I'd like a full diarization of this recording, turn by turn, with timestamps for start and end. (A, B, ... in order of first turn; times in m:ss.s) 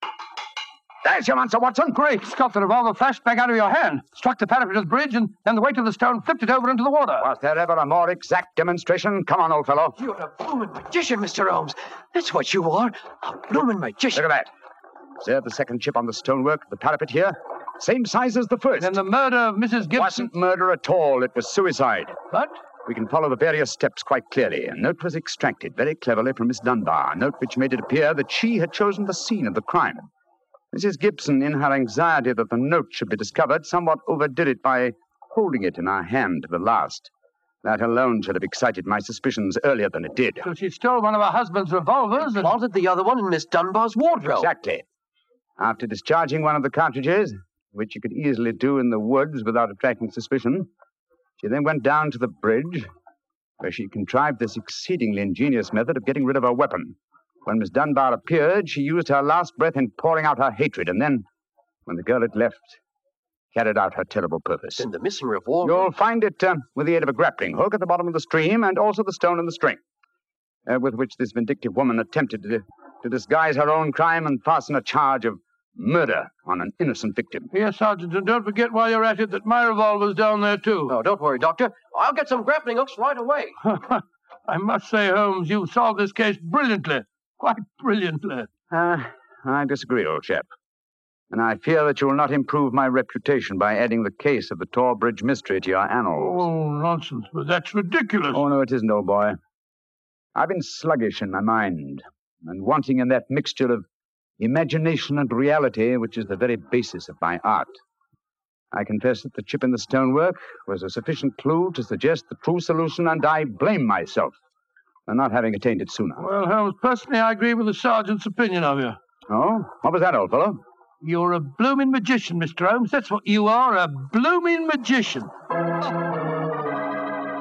0:01.0-0:02.0 A
0:01.9-0:07.3 B
0:07.2-0:10.0 A
0:10.0-0:14.3 C
0:14.1-0:14.5 A
0:15.2-0:19.0 A
0:18.8-0:20.3 B
0:20.0-0:22.2 A
0:22.8-0:30.1 A
0:30.7-0:37.1 A
0:37.6-0:40.5 A
0:40.4-0:42.5 B
0:42.2-0:44.5 C
0:44.4-0:44.8 A
0:45.6-0:50.7 A
0:51.4-0:52.9 A
0:53.6-1:01.2 A
1:01.9-1:02.8 A
1:03.5-1:04.9 A
1:04.8-1:05.9 C
1:05.6-1:09.8 A
1:10.7-1:17.5 A
1:17.5-1:20.9 B
1:20.9-1:23.6 C
1:23.6-1:28.5 B
1:28.7-1:30.5 A
1:31.3-1:36.5 A
1:36.2-1:38.4 B
1:38.3-1:39.4 A
1:40.4-1:43.8 A
1:44.4-1:47.7 A
1:48.7-1:54.4 A
1:55.1-1:56.3 A
1:56.2-1:59.0 B
1:59.3-2:00.6 A
2:01.0-2:05.3 B